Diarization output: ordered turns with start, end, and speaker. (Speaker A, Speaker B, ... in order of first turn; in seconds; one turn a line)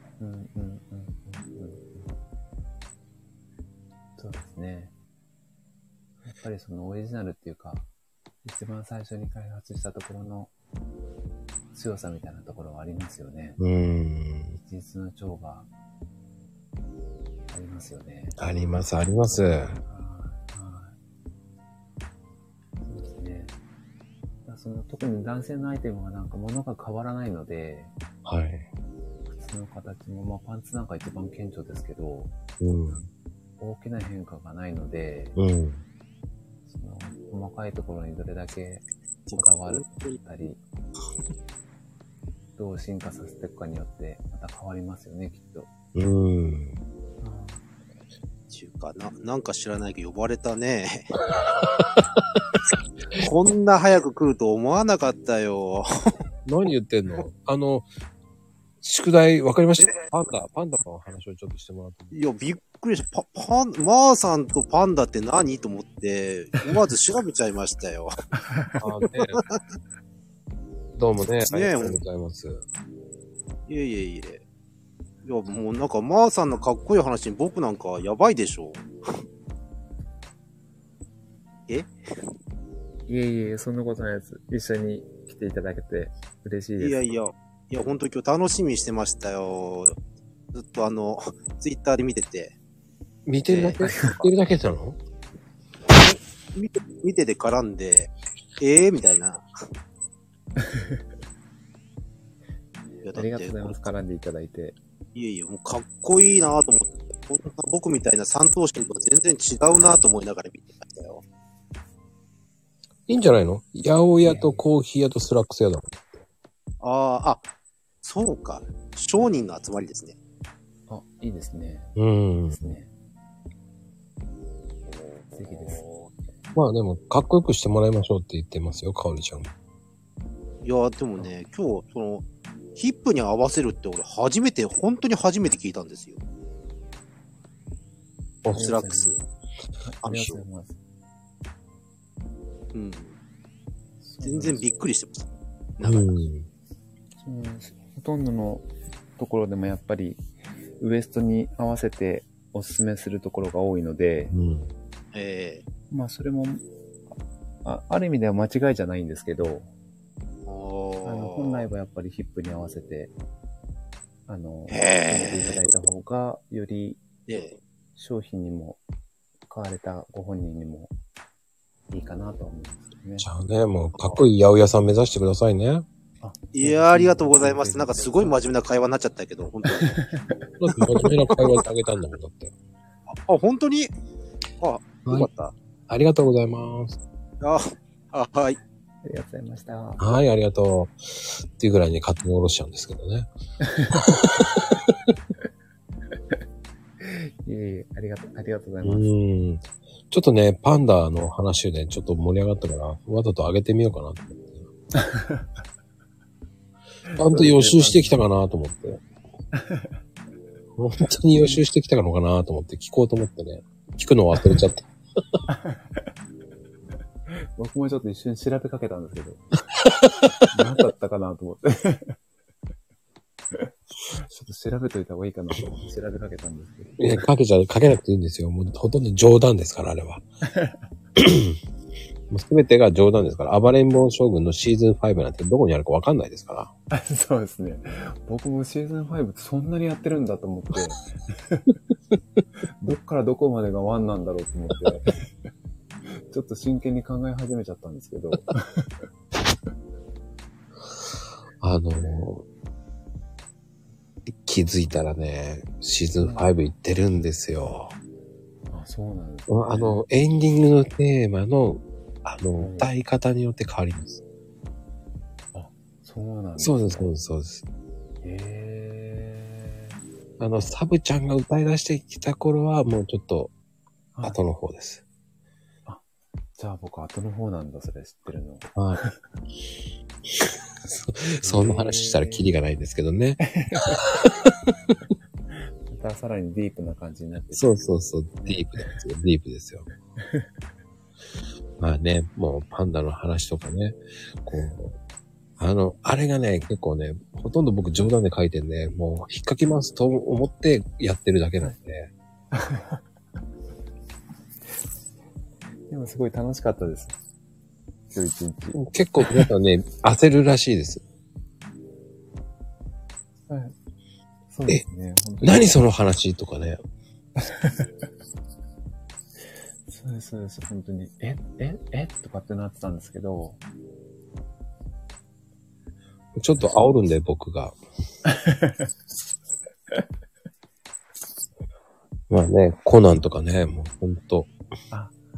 Speaker A: 0.2-2.1
Speaker A: 4.2-4.9
Speaker A: 6.2-7.9
Speaker A: 8.4-10.5
Speaker A: 11.7-13.6
Speaker B: 13.6-14.6
Speaker A: 14.7-15.7
Speaker A: 17.5-18.4
Speaker B: 18.4-19.8
Speaker A: 19.8-20.9
Speaker A: 22.8-23.6
Speaker A: 24.4-27.9
Speaker B: 28.2-28.7
Speaker A: 29.3-32.3
Speaker B: 32.6-33.1
Speaker A: 33.6-35.4
Speaker B: 35.4-35.8
Speaker A: 36.7-38.9
Speaker C: 39.3-40.2
Speaker A: 39.4-40.6
Speaker A: 42.6-45.7
Speaker B: 46.0-46.8
Speaker A: 47.2-47.6
Speaker C: 48.5-51.2
Speaker C: 53.2-56.1
Speaker B: 56.5-57.9
Speaker B: 58.8-62.1
Speaker C: 62.1-68.1
Speaker A: 68.5-68.8
Speaker B: 68.8-69.4
Speaker C: 69.1-69.6
Speaker B: 71.0-72.6
Speaker C: 71.5-72.0
Speaker C: 73.7-74.4
Speaker C: 75.2-78.9
Speaker A: 83.1-87.1
Speaker C: 86.8-90.0
Speaker C: 90.5-92.5
Speaker B: 93.3-95.0
Speaker C: 93.5-93.8
Speaker A: 93.8-94.2
Speaker C: 95.9-99.5
Speaker A: 100.6-101.0
Speaker C: 103.0-103.8
Speaker A: 103.1-104.8
Speaker C: 105.1-111.2
Speaker B: 113.1-116.2
Speaker A: 114.2-114.6
Speaker C: 116.8-117.4
Speaker C: 118.0-120.2
Speaker A: 120.9-122.0
Speaker B: 122.0-122.7
Speaker A: 122.5-122.9
Speaker A: 125.3-125.9
Speaker B: 126.5-129.5
Speaker C: 130.6-132.2
Speaker C: 132.8-136.2
Speaker A: 138.5-139.1
Speaker C: 138.5-139.2
Speaker A: 139.8-140.8
Speaker C: 140.0-140.4
Speaker C: 142.7-143.2
Speaker A: 144.0-144.7
Speaker C: 144.2-146.2
Speaker B: 145.8-146.5
Speaker A: 147.2-148.7
Speaker A: 149.2-150.2
Speaker A: 150.8-154.3
Speaker B: 154.3-154.7
Speaker C: 155.1-155.6
Speaker A: 155.9-156.6
Speaker A: 157.6-159.7
Speaker C: 160.4-161.7
Speaker A: 161.1-163.1
Speaker A: 164.3-167.0
Speaker C: 164.7-165.7
Speaker C: 167.3-167.6
Speaker A: 167.9-168.8
Speaker A: 169.5-170.9
Speaker A: 171.9-173.3
Speaker B: 173.2-175.9
Speaker A: 176.2-178.4
Speaker C: 176.5-180.0
Speaker A: 179.7-180.5
Speaker B: 180.6-182.5
Speaker C: 180.7-181.6
Speaker C: 183.1-183.9
Speaker C: 184.6-185.6
Speaker B: 185.9-187.0
Speaker C: 187.4-188.6
Speaker A: 189.0-190.0
Speaker B: 190.0-193.3
Speaker A: 193.6-194.1
Speaker B: 194.0-194.9
Speaker A: 197.0-199.1
Speaker B: 198.8-204.7
Speaker A: 205.0-205.5
Speaker A: 207.1-208.2
Speaker B: 207.2-209.0
Speaker A: 209.6-209.9
Speaker B: 210.8-214.9
Speaker A: 211.4-211.6
Speaker A: 215.5-215.8
Speaker A: 217.3-219.4
Speaker B: 219.9-220.2
Speaker A: 220.5-222.2
Speaker A: 224.1-227.3
Speaker B: 227.0-230.2
Speaker A: 230.4-230.8
Speaker B: 231.2-231.6
Speaker B: 232.3-236.7
Speaker A: 236.9-241.7
Speaker A: 242.8-245.2
Speaker A: 246.2-248.9
Speaker B: 251.6-252.4
Speaker B: 254.3-257.9
Speaker A: 256.2-256.5
Speaker A: 258.7-260.0
Speaker B: 259.5-264.2
Speaker A: 262.6-262.9
Speaker A: 265.5-267.1
Speaker B: 266.6-267.6
Speaker A: 268.2-269.7
Speaker B: 270.4-273.5
Speaker A: 274.1-274.4
Speaker B: 274.2-275.0
Speaker A: 276.6-279.1
Speaker B: 278.7-279.0
Speaker B: 280.3-285.0
Speaker A: 281.4-282.4
Speaker A: 283.4-284.1
Speaker A: 285.9-287.8
Speaker B: 287.6-289.9
Speaker A: 288.4-288.9
Speaker A: 290.2-290.5
Speaker B: 291.8-295.0
Speaker B: 295.6-302.1
Speaker A: 302.5-303.0
Speaker A: 305.9-307.1
Speaker A: 308.1-309.5
Speaker B: 308.7-311.0
Speaker A: 313.5-313.7
Speaker A: 314.5-315.8
Speaker B: 315.4-316.8
Speaker A: 317.4-317.8
Speaker A: 319.9-323.6
Speaker B: 326.4-327.8
Speaker A: 328.3-328.9
Speaker B: 332.3-334.5
Speaker A: 334.9-335.1